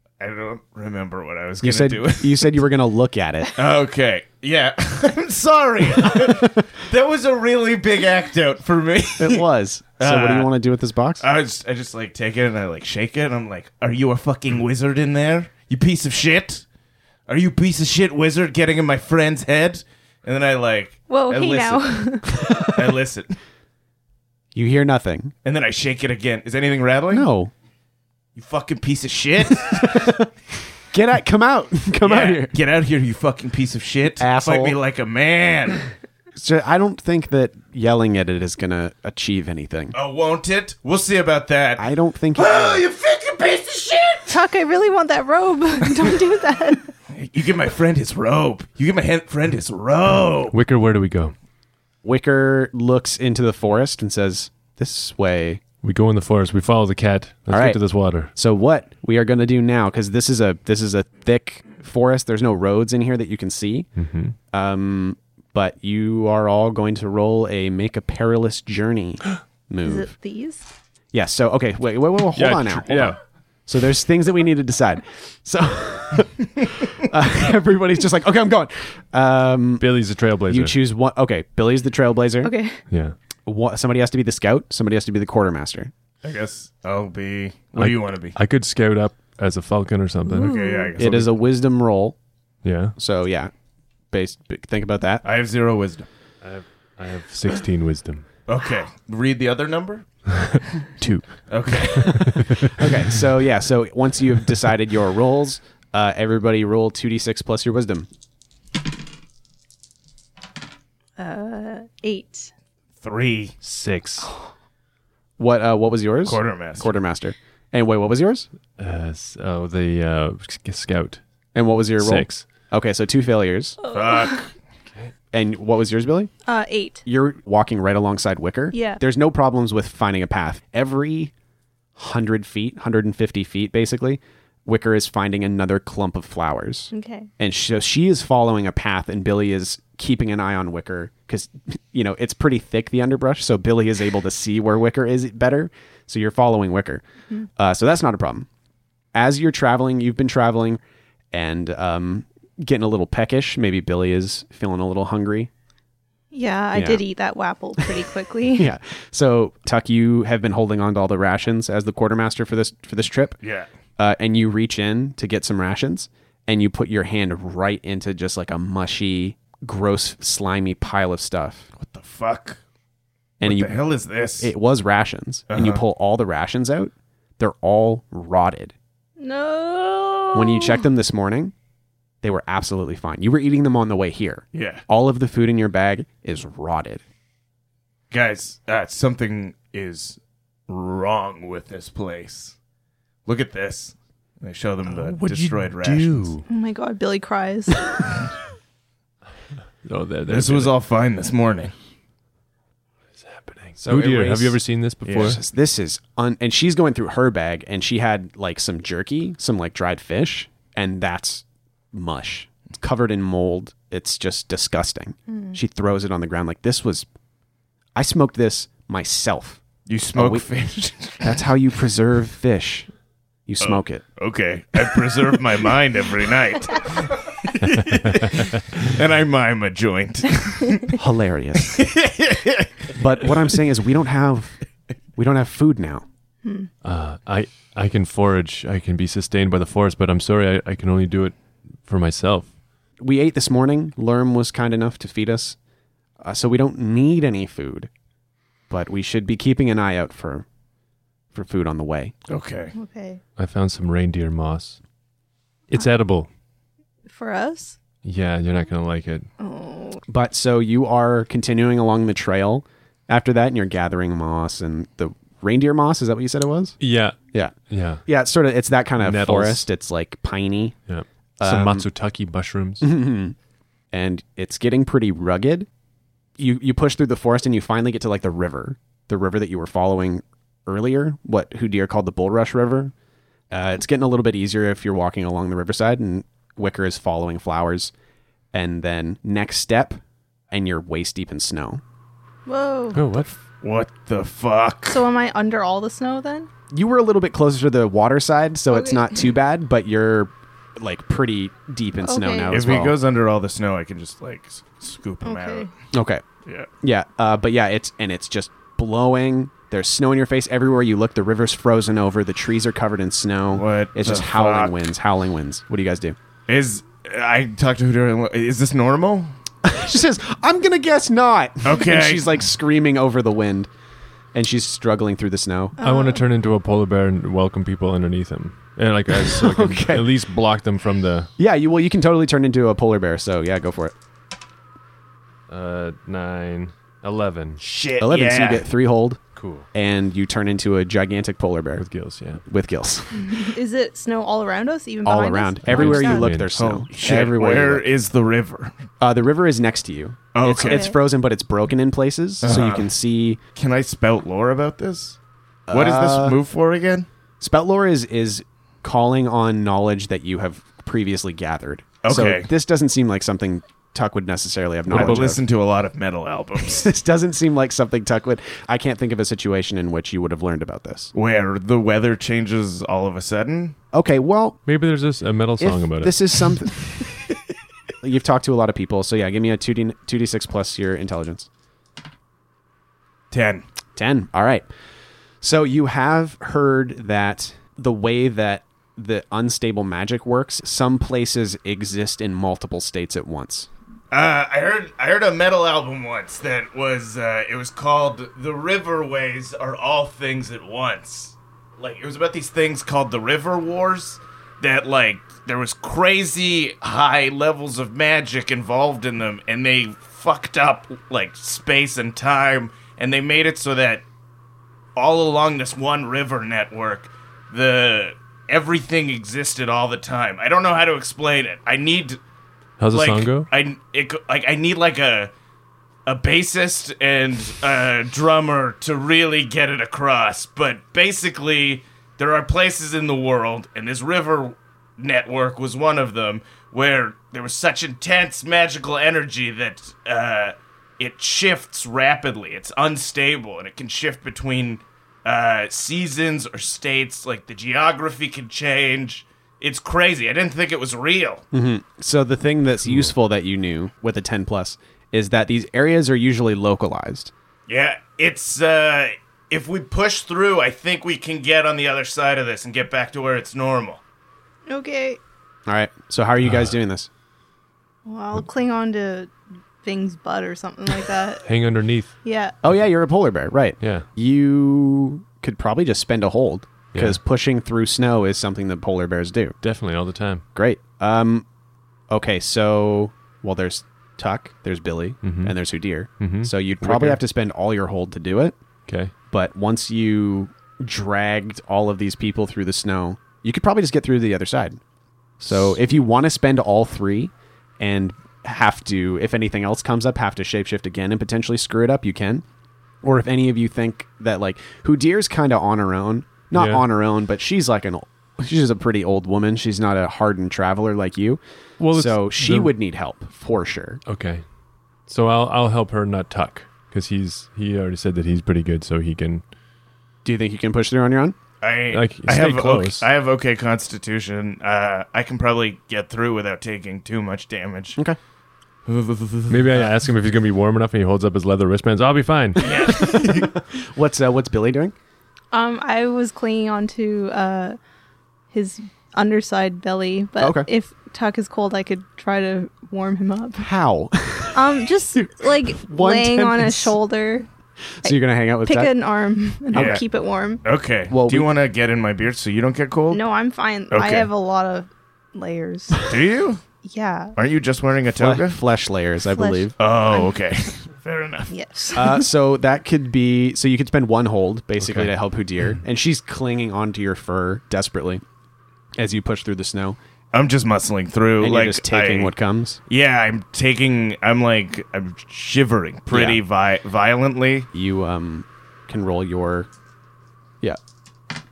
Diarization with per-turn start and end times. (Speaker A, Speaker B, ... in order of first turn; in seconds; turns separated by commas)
Speaker A: 0.2-2.5, Speaker B: 1.6-3.5, Speaker A: 3.5-9.4, Speaker B: 9.2-11.2, Speaker A: 10.0-10.5, Speaker A: 11.2-16.6, Speaker A: 17.3-23.3, Speaker C: 21.1-22.3, Speaker B: 22.4-22.7, Speaker B: 24.5-25.3, Speaker A: 25.4-27.3, Speaker B: 27.1-27.5, Speaker A: 28.4-30.1, Speaker B: 29.7-30.3, Speaker B: 30.9-32.5, Speaker A: 32.0-35.8, Speaker B: 34.2-34.8, Speaker B: 36.3-40.0, Speaker A: 39.9-44.4, Speaker B: 41.8-42.8, Speaker C: 44.3-46.9, Speaker A: 47.1-50.5, Speaker D: 50.5-51.3, Speaker B: 52.0-55.6, Speaker D: 55.8-58.3, Speaker B: 57.5-63.9, Speaker D: 64.0-64.3, Speaker B: 64.5-70.1, Speaker C: 69.8-70.7, Speaker B: 71.1-79.9, Speaker D: 72.3-73.2, Speaker D: 79.8-80.8, Speaker B: 80.5-82.5, Speaker C: 82.4-82.8, Speaker D: 82.9-83.2, Speaker B: 83.5-85.9, Speaker A: 86.2-88.3, Speaker D: 87.8-91.3, Speaker C: 90.3-90.9, Speaker A: 90.4-91.2, Speaker B: 91.0-92.2, Speaker D: 92.6-92.9, Speaker B: 93.0-93.5, Speaker B: 94.1-95.2, Speaker A: 95.2-96.0, Speaker D: 96.4-98.2, Speaker A: 98.5-100.0, Speaker D: 100.3-101.2, Speaker A: 101.5-102.3, Speaker B: 101.9-108.1, Speaker D: 102.0-102.9, Speaker C: 111.2-112.5, Speaker A: 113.0-113.5, Speaker D: 113.6-114.3, Speaker C: 114.2-114.5, Speaker B: 115.4-118.5, Speaker A: 116.2-116.9, Speaker D: 118.8-121.2, Speaker B: 121.5-123.8, Speaker D: 122.0-122.4, Speaker C: 123.8-124.4, Speaker A: 123.9-124.5, Speaker B: 125.3-126.3, Speaker C: 126.5-127.0, Speaker B: 127.0-131.3, Speaker C: 128.7-129.0, Speaker B: 131.9-147.0, Speaker C: 136.9-137.3, Speaker B: 147.6-148.5, Speaker B: 149.1-150.8, Speaker B: 151.3-155.5, Speaker C: 156.3-158.7, Speaker B: 156.7-157.0, Speaker B: 158.5-163.4, Speaker A: 163.4-163.7, Speaker B: 164.0-171.7, Speaker A: 171.8-172.6, Speaker B: 173.4-173.8, Speaker A: 173.4-174.5, Speaker B: 174.4-178.7, Speaker A: 175.5-175.8, Speaker C: 179.2-180.8, Speaker B: 180.3-181.5, Speaker B: 182.2-187.0, Speaker A: 184.5-184.8, Speaker A: 188.1-192.5, Speaker A: 193.2-196.3, Speaker D: 194.8-196.4, Speaker C: 196.5-198.1, Speaker D: 199.8-200.7, Speaker A: 200.3-201.7, Speaker D: 203.2-205.4, Speaker B: 203.8-204.6, Speaker A: 205.0-205.4, Speaker B: 205.2-217.1, Speaker C: 215.3-215.6, Speaker B: 217.9-219.6, Speaker A: 219.9-221.3, Speaker B: 220.1-220.5, Speaker B: 221.2-222.9, Speaker B: 223.5-224.0, Speaker A: 223.6-230.9, Speaker D: 228.0-228.4, Speaker B: 230.9-231.8, Speaker A: 231.6-233.3, Speaker B: 232.9-234.6, Speaker B: 235.2-236.0, Speaker D: 236.8-242.5, Speaker B: 243.0-245.6, Speaker B: 246.2-247.9, Speaker B: 248.7-250.4, Speaker B: 251.3-252.1, Speaker A: 252.3-252.7, Speaker C: 252.8-253.2, Speaker D: 253.4-254.8, Speaker D: 255.7-256.3, Speaker C: 257.1-257.8, Speaker D: 258.0-259.3, Speaker C: 259.4-260.0, Speaker B: 260.1-266.8, Speaker D: 266.8-267.2, Speaker B: 267.3-270.8, Speaker D: 267.7-268.0, Speaker D: 269.0-269.7, Speaker D: 270.9-272.9, Speaker B: 271.4-271.9, Speaker B: 272.8-273.4, Speaker B: 273.9-275.7, Speaker B: 276.4-282.9, Speaker B: 283.5-287.9, Speaker B: 288.5-290.0, Speaker B: 290.5-291.8, Speaker C: 292.4-293.0, Speaker D: 292.9-293.3, Speaker A: 293.6-295.0, Speaker C: 294.9-296.5, Speaker B: 296.7-302.9, Speaker C: 298.7-299.3, Speaker C: 302.0-302.6, Speaker A: 302.5-305.7, Speaker C: 305.2-305.7, Speaker B: 305.9-306.2, Speaker B: 306.8-316.1, Speaker A: 313.5-314.8, Speaker A: 316.5-319.3, Speaker B: 319.6-323.7, Speaker A: 321.6-322.4, Speaker B: 324.3-325.8, Speaker C: 325.8-326.2, Speaker D: 325.8-331.3, Speaker B: 329.1-330.1, Speaker B: 331.4-333.9, Speaker D: 335.5-337.6, Speaker A: 337.6-338.6, Speaker B: 338.0-339.2, Speaker D: 339.3-339.7, Speaker B: 339.7-341.9, Speaker D: 341.8-342.4, Speaker B: 342.4-343.5, Speaker C: 343.2-346.3, Speaker B: 345.0-347.9, Speaker D: 345.6-346.5, Speaker A: 346.5-348.7, Speaker B: 349.0-353.4, Speaker A: 350.3-350.9, Speaker C: 350.6-351.0, Speaker A: 352.4-352.9, Speaker A: 353.6-355.2, Speaker B: 355.7-356.4, Speaker A: 355.7-357.1, Speaker B: 357.4-365.4, Speaker A: 362.0-362.5, Speaker D: 364.9-365.3, Speaker A: 364.9-366.8, Speaker B: 366.6-371.1, Speaker A: 371.1-373.8, Speaker B: 373.9-374.6, Speaker D: 374.7-376.2, Speaker B: 375.6-377.1, Speaker B: 378.0-381.5, Speaker A: 383.3-383.6, Speaker B: 383.9-384.7, Speaker B: 385.4-393.7, Speaker A: 394.1-414.0, Speaker A: 414.9-422.2, Speaker D: 422.8-423.5, Speaker A: 422.9-425.3, Speaker A: 426.1-451.4, Speaker B: 451.5-457.3, Speaker D: 452.9-453.1, Speaker A: 457.7-464.0, Speaker C: 464.7-465.2, Speaker B: 465.7-467.1, Speaker D: 466.4-466.7, Speaker C: 468.0-471.4, Speaker D: 471.4-472.1, Speaker C: 472.2-472.5, Speaker B: 472.6-479.6, Speaker D: 473.8-474.1, Speaker D: 476.9-477.2, Speaker D: 479.6-480.4, Speaker B: 480.5-481.4, Speaker B: 482.1-488.6, Speaker D: 485.2-485.6, Speaker D: 486.2-487.2, Speaker D: 488.9-489.1, Speaker B: 489.3-494.8, Speaker D: 495.4-495.7, Speaker B: 495.4-502.4, Speaker B: 503.0-511.4, Speaker D: 506.5-506.8, Speaker D: 511.8-512.7, Speaker B: 511.9-514.0, Speaker D: 514.0-514.4, Speaker D: 515.1-519.4, Speaker B: 520.2-521.4, Speaker A: 521.6-528.0, Speaker D: 521.9-523.1, Speaker A: 528.9-529.9, Speaker D: 529.5-532.9, Speaker A: 532.6-533.5, Speaker B: 532.8-534.9, Speaker C: 535.5-537.8, Speaker C: 538.5-543.6, Speaker B: 540.4-540.7, Speaker B: 543.6-547.0, Speaker C: 544.5-547.5, Speaker B: 548.0-548.9, Speaker C: 548.0-550.6, Speaker B: 549.7-550.0, Speaker A: 549.7-550.0, Speaker A: 550.6-553.2, Speaker B: 551.1-551.5, Speaker C: 553.1-556.0, Speaker A: 553.9-554.3, Speaker A: 556.0-556.6, Speaker C: 556.8-557.3, Speaker A: 557.4-558.6, Speaker B: 558.1-559.7, Speaker C: 559.2-560.3, Speaker A: 559.8-561.5, Speaker C: 561.5-562.2, Speaker B: 561.9-568.2, Speaker D: 564.8-565.1, Speaker B: 569.0-570.0, Speaker A: 570.3-572.3, Speaker B: 571.4-572.8, Speaker A: 572.9-577.7, Speaker B: 576.1-576.4, Speaker B: 577.7-579.7